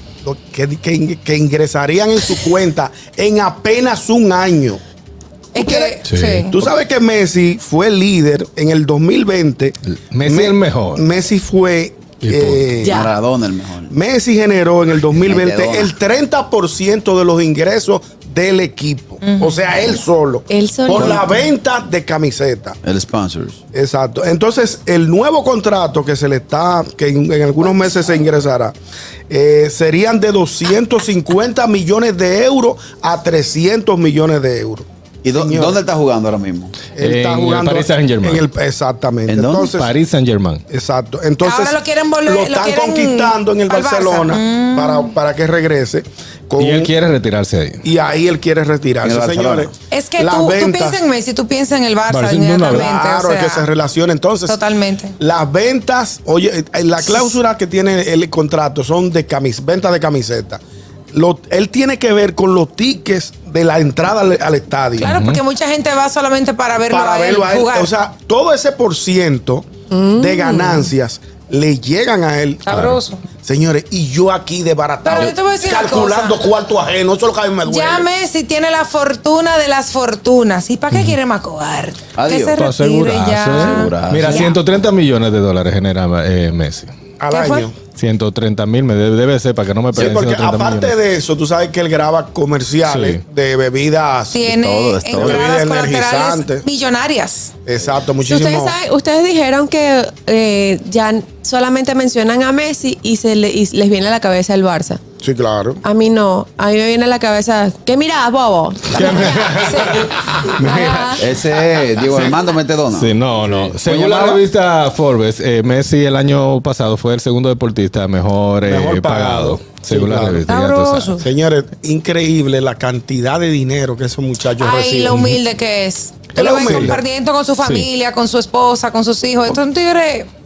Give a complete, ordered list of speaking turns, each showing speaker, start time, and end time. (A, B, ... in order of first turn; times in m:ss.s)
0:00.2-0:04.8 A
0:05.5-0:06.5 B
0:05.5-0:13.1 A
0:06.1-0:06.5 C
0:10.1-0:11.0 C
0:12.2-0:12.8 C
0:12.8-0:13.1 D
0:12.8-0:13.9 E
0:13.9-0:22.8 A
0:15.1-0:15.9 E
0:19.2-0:19.7 B
0:20.5-0:21.4 D
0:20.9-0:21.2 E
0:22.8-0:23.6 E
0:23.7-0:28.7 A
0:29.3-0:35.8 A
0:35.2-0:36.9 E
0:36.9-0:39.9 A
0:37.0-0:38.4 C
0:39.3-0:39.8 E
0:39.8-0:40.6 C
0:40.7-0:46.9 A
0:41.4-0:45.1 B
0:46.6-0:47.8 C
0:47.8-0:51.0 A
0:49.0-0:49.7 E
0:49.9-0:53.7 B
0:52.1-0:52.9 C
0:52.6-0:54.6 A
0:54.4-0:55.1 B
0:55.2-1:00.6 A
0:57.0-0:57.3 B
1:01.1-1:05.1 A
1:05.0-1:05.4 C
1:05.0-1:07.9 B
1:06.9-1:12.7 A
1:09.9-1:10.4 D
1:10.4-1:10.8 B
1:12.6-1:13.2 B
1:12.7-1:13.0 C
1:13.4-1:18.1 A
1:15.0-1:16.4 B
1:17.6-1:24.6 B
1:22.2-1:22.6 E
1:22.6-1:26.9 C
1:23.5-1:24.5 E
1:27.2-1:27.8 A
1:27.3-1:27.7 B
1:27.9-1:30.9 C
1:29.9-1:34.5 A
1:32.8-1:33.2 C
1:34.3-1:37.5 B
1:34.5-1:35.5 E
1:35.1-1:36.6 A
1:37.6-1:38.8 A
1:38.2-1:45.0 D
1:45.2-1:45.8 A
1:45.8-1:49.6 D
1:48.9-1:51.3 C
1:49.6-1:50.0 B
1:50.6-1:50.8 A
1:50.6-1:51.2 D
1:51.2-1:54.4 E
1:52.9-2:01.2 C
1:58.6-2:00.4 A
2:00.5-2:01.2 B
2:01.2-2:05.3 A
2:04.6-2:10.3 B
2:06.3-2:07.0 A
2:06.6-2:06.9 C
2:07.6-2:07.9 C